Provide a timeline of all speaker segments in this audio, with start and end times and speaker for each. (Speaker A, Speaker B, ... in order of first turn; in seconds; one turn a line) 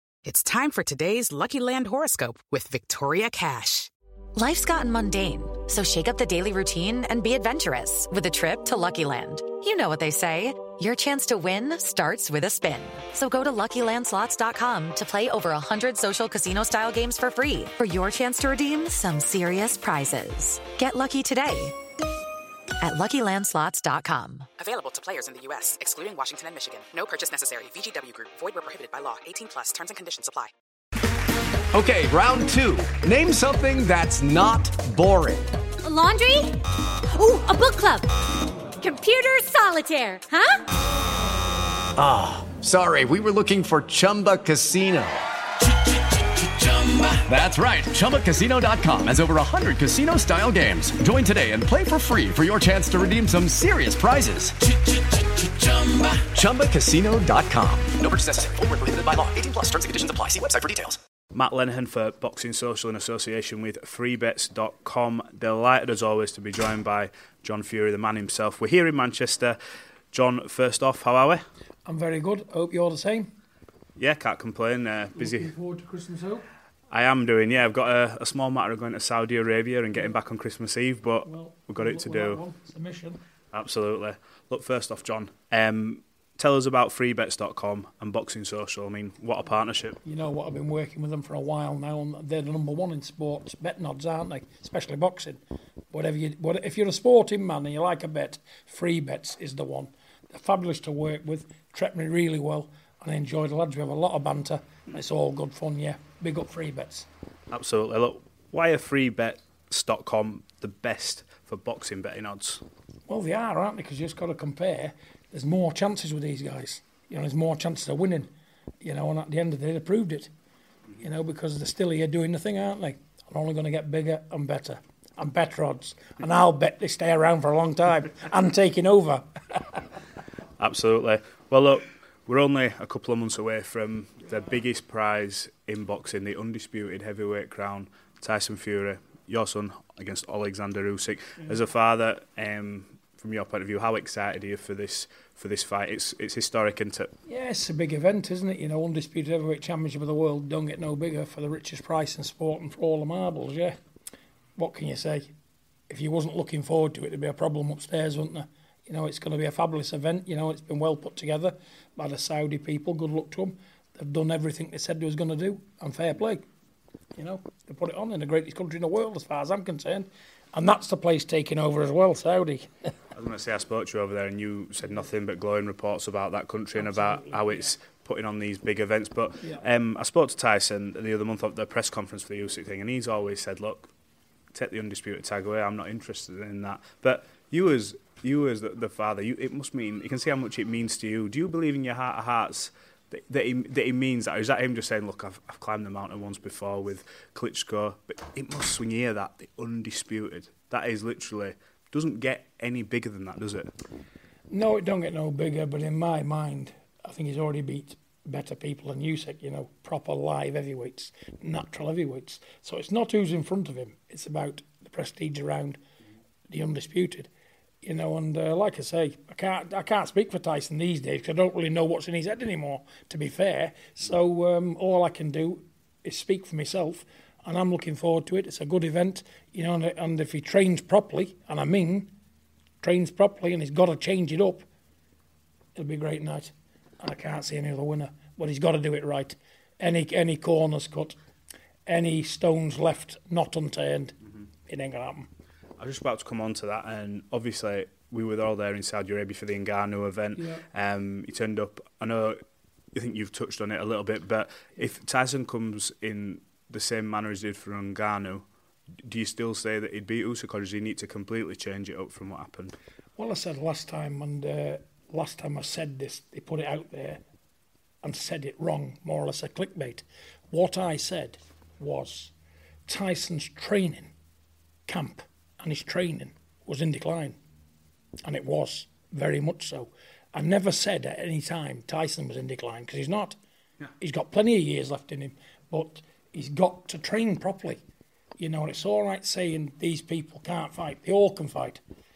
Speaker A: 0.2-3.9
Speaker B: 4.3-21.8
Speaker B: 22.8-24.5
Speaker A: 24.6-30.5
Speaker C: 31.7-35.5
Speaker D: 35.8-36.6
Speaker D: 37.1-38.1
Speaker D: 38.8-40.6
Speaker C: 42.0-58.0
Speaker E: 57.9-61.0
Speaker F: 61.3-69.6
Speaker F: 70.1-71.5
Speaker G: 71.8-73.3
Speaker F: 74.0-75.5
Speaker G: 75.2-76.5
Speaker F: 76.9-82.4
Speaker G: 81.2-83.2
Speaker F: 83.5-90.0
Speaker G: 90.0-95.4
Speaker G: 95.9-107.1
Speaker F: 107.5-112.6
Speaker G: 113.1-118.3
Speaker G: 118.8-120.3
Speaker G: 121.0-129.2
Speaker F: 130.6-147.1
Speaker G: 147.3-153.8
Speaker G: 154.6-155.3
Speaker G: 155.9-166.4
Speaker G: 167.2-172.7
Speaker F: 173.1-183.9
Speaker G: 176.7-177.7
Speaker F: 184.5-203.7
Speaker G: 204.5-215.8
Speaker G: 216.5-217.3
Speaker G: 217.8-232.1
Speaker G: 232.8-234.7
Speaker G: 235.8-241.2
Speaker G: 241.9-244.1
Speaker G: 244.7-245.3
Speaker F: 245.8-252.4
Speaker F: 252.9-258.4
Speaker F: 259.0-262.8
Speaker G: 263.2-267.2
Speaker G: 268.0-272.3
Speaker G: 272.9-274.1
Speaker G: 274.9-277.4
Speaker G: 278.2-283.4
Speaker G: 284.0-287.8
Speaker G: 288.4-291.8